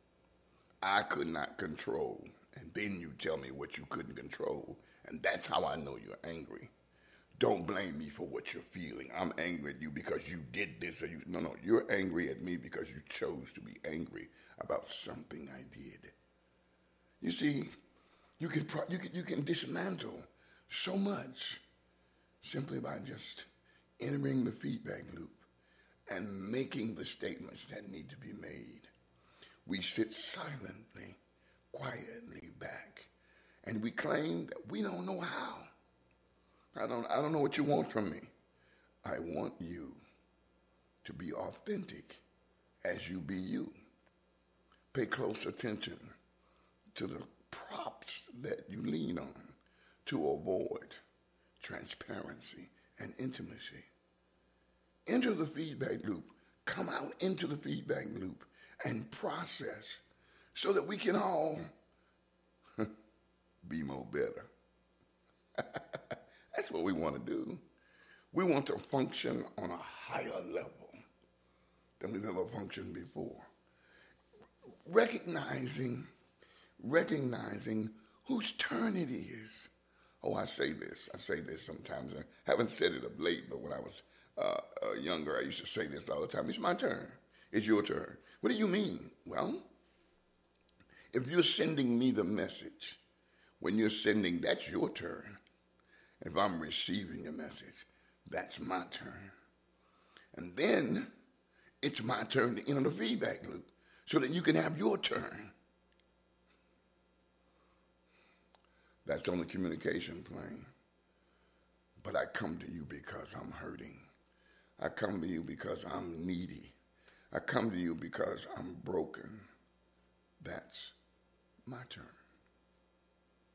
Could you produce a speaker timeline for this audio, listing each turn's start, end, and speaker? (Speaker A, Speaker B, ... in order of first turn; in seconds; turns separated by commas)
Speaker A: 0.8-6.7, Speaker A: 7.4-16.1, Speaker A: 17.2-17.7, Speaker A: 18.4-21.6, Speaker A: 22.4-23.5, Speaker A: 24.0-25.5, Speaker A: 26.1-28.9, Speaker A: 29.6-31.2, Speaker A: 31.7-33.1, Speaker A: 33.6-35.7, Speaker A: 36.7-38.3, Speaker A: 39.0-40.0, Speaker A: 41.0-42.2, Speaker A: 42.8-43.7, Speaker A: 44.9-46.1, Speaker A: 46.9-51.0, Speaker A: 51.6-53.9, Speaker A: 55.1-61.7, Speaker A: 63.6-64.5, Speaker A: 65.6-67.6, Speaker A: 68.3-71.0, Speaker A: 72.0-73.5, Speaker A: 74.8-76.1, Speaker A: 76.8-89.7, Speaker A: 91.1-93.0, Speaker A: 93.6-95.4, Speaker A: 96.2-99.3, Speaker A: 100.3-101.1, Speaker A: 101.8-105.5, Speaker A: 109.0-110.7, Speaker A: 112.0-114.1, Speaker A: 114.8-116.8, Speaker A: 117.3-119.5, Speaker A: 120.4-121.0, Speaker A: 121.7-122.2